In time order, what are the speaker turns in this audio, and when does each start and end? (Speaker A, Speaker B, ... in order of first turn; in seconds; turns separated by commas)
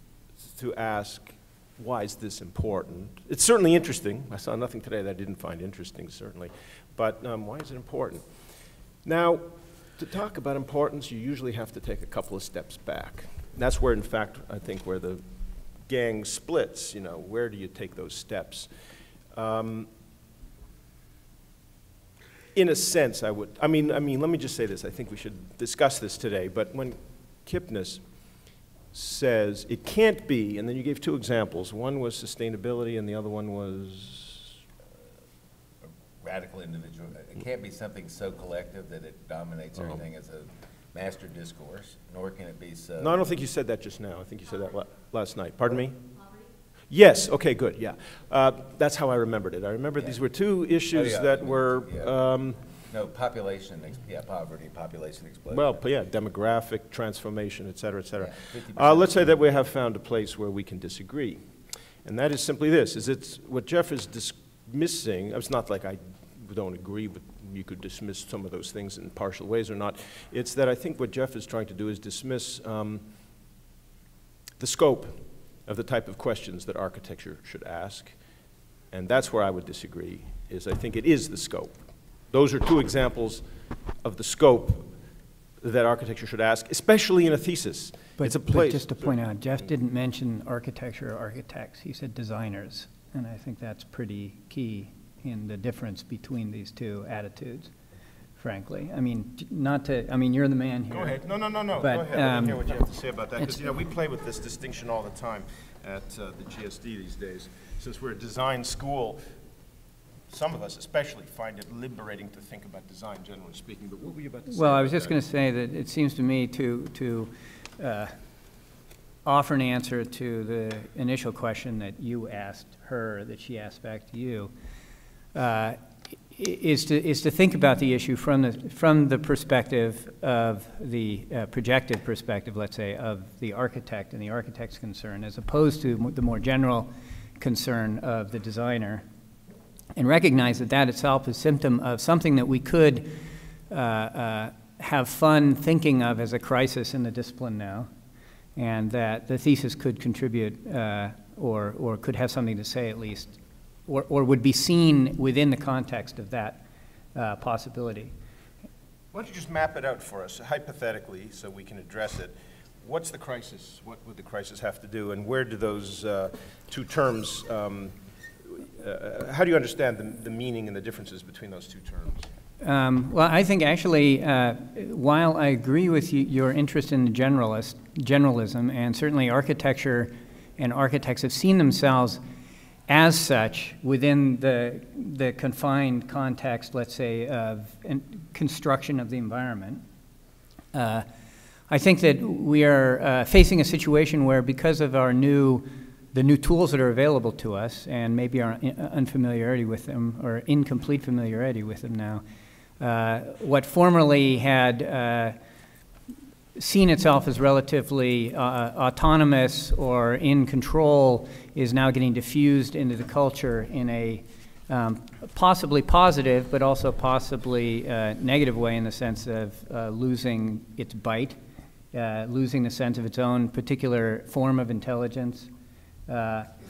Speaker A: 0.5-8.3, Speaker A: 9.0-15.2, Speaker A: 15.8-18.7, Speaker A: 19.3-19.9, Speaker A: 22.5-28.0, Speaker A: 28.9-34.6, Speaker B: 36.2-43.2, Speaker A: 43.0-46.1, Speaker A: 46.9-52.6, Speaker B: 50.9-52.1, Speaker B: 52.9-55.8, Speaker A: 55.5-61.4, Speaker B: 58.2-59.4, Speaker A: 62.0-73.0, Speaker A: 74.6-78.2, Speaker A: 78.9-83.4, Speaker A: 84.0-85.0, Speaker A: 85.6-89.2, Speaker C: 88.2-97.7, Speaker C: 98.4-101.2, Speaker A: 100.9-109.2, Speaker C: 101.8-102.6, Speaker A: 110.3-115.2, Speaker C: 114.5-118.2, Speaker C: 119.2-124.5, Speaker C: 125.3-125.8, Speaker C: 126.3-139.0, Speaker C: 140.0-143.2, Speaker C: 143.7-147.9, Speaker C: 148.6-156.6, Speaker C: 157.1-158.1, Speaker A: 159.1-172.3, Speaker C: 172.6-182.2, Speaker C: 182.9-189.8, Speaker C: 190.7-191.1, Speaker C: 191.7-202.2, Speaker C: 202.8-205.4, Speaker C: 206.6-221.4, Speaker C: 221.9-225.5, Speaker C: 226.1-226.5